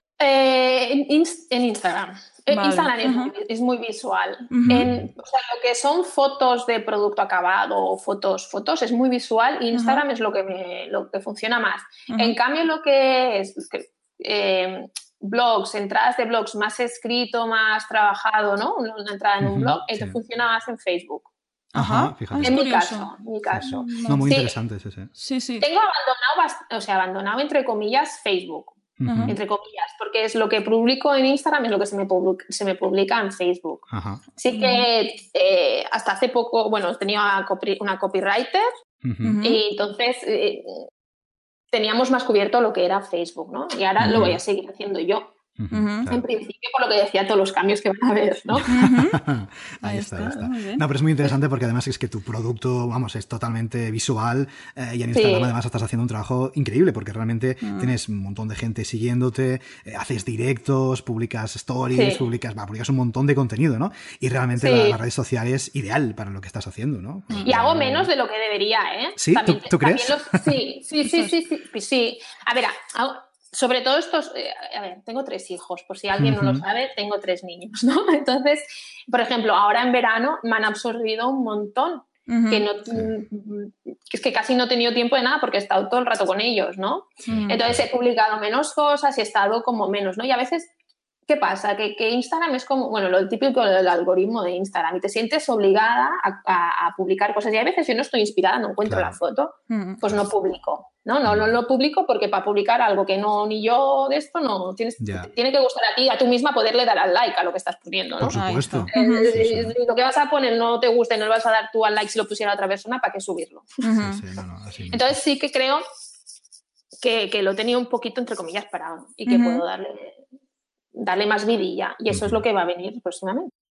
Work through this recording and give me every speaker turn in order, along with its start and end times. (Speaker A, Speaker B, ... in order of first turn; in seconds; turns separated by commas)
Speaker A: 0.2-21.3, Speaker B: 2.5-3.3, Speaker B: 4.5-4.9, Speaker C: 4.7-5.1, Speaker B: 9.7-10.0, Speaker B: 12.1-12.4, Speaker C: 19.4-20.2, Speaker B: 21.7-23.1, Speaker C: 21.8-22.6, Speaker A: 22.4-24.6, Speaker C: 23.5-25.1, Speaker B: 23.7-24.3, Speaker B: 25.2-25.7, Speaker A: 25.6-38.7, Speaker C: 29.0-29.4, Speaker B: 29.1-29.4, Speaker C: 33.9-34.2, Speaker B: 34.5-34.9, Speaker C: 39.0-39.4, Speaker B: 39.2-39.6, Speaker A: 39.4-40.9, Speaker A: 41.7-45.3, Speaker C: 44.0-44.4, Speaker C: 45.6-46.2, Speaker B: 45.7-46.1, Speaker A: 46.1-48.7, Speaker C: 48.5-68.1, Speaker B: 48.7-49.2, Speaker B: 49.8-50.8, Speaker A: 55.1-55.5, Speaker B: 57.6-57.9, Speaker A: 61.9-62.2, Speaker A: 64.5-65.0, Speaker A: 67.4-90.7, Speaker C: 69.2-70.6, Speaker C: 76.2-76.6, Speaker B: 82.3-82.6, Speaker C: 87.2-87.8, Speaker B: 87.3-87.6, Speaker A: 91.3-113.8, Speaker C: 98.9-99.2, Speaker B: 99.7-100.0, Speaker C: 101.2-101.6, Speaker C: 105.0-105.3, Speaker C: 108.2-109.8, Speaker B: 108.3-109.3, Speaker B: 113.8-114.2, Speaker C: 114.0-115.2, Speaker A: 114.9-115.8, Speaker A: 117.0-120.2, Speaker B: 119.3-119.6, Speaker A: 121.0-123.5, Speaker C: 122.1-122.4